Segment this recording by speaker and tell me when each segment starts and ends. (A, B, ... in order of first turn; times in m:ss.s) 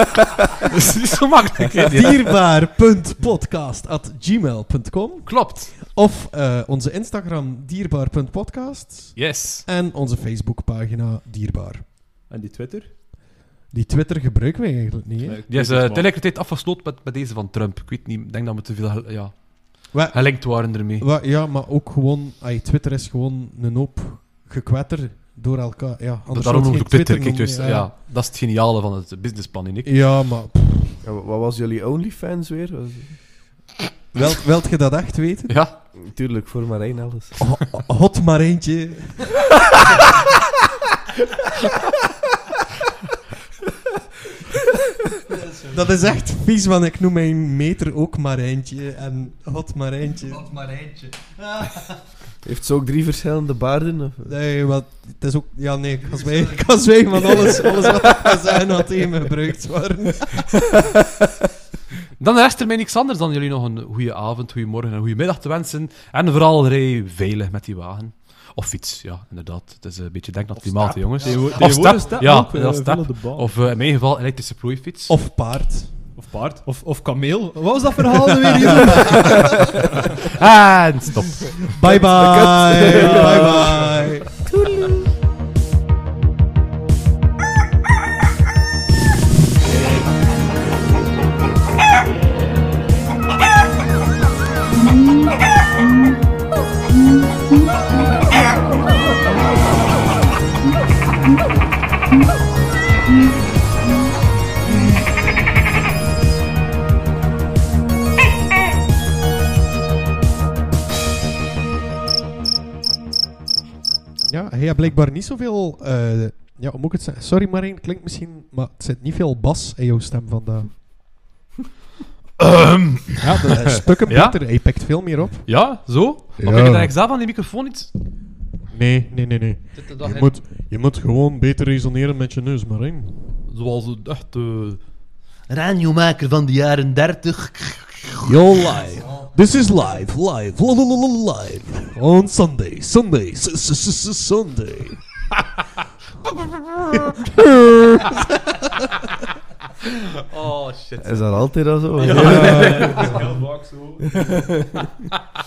0:00.5-0:02.3 A
0:01.7-0:11.8 B
0:05.2-0:05.8 A
0:09.2-0:09.7 A
0:12.3-0:13.0 C
0:13.7-0:15.4 B
0:15.2-0:16.1 C
0:15.5-0:21.1 A
0:19.9-0:27.9 B
0:26.3-0:30.0 A
0:29.8-0:31.0 B
0:31.0-0:33.3 D
0:34.1-0:35.6 B
0:35.5-0:35.8 A
0:35.9-0:37.4 D
0:37.4-0:39.6 B
0:45.4-0:45.7 E
0:45.6-0:50.5 B
0:50.2-0:52.0 E
0:52.4-0:54.4 D
0:54.3-1:00.9 B
0:56.0-0:58.2 E
1:02.2-1:15.2 A
1:10.6-1:13.5 C
1:15.1-1:16.0 B
1:16.1-1:19.8 C
1:18.5-1:19.4 B
1:20.3-1:21.8 A
1:21.8-1:24.3 B
1:21.9-1:24.9 D
1:22.9-1:23.8 C
1:54.3-2:00.9 B
2:02.4-2:04.9 A
2:03.3-2:03.8 C
2:03.4-2:05.7 B
2:05.4-2:07.9 A
2:06.4-2:06.9 B
2:08.7-2:13.2 B
2:09.7-2:10.3 A
2:13.5-2:14.8 A
2:15.5-2:18.4 A
2:18.2-2:25.0 B
2:18.9-2:19.4 E
2:27.1-2:28.2 B
2:29.8-2:33.1 A
2:31.0-2:33.1 D
2:32.0-2:34.6 C
2:32.2-2:33.1 B
2:34.2-2:34.7 D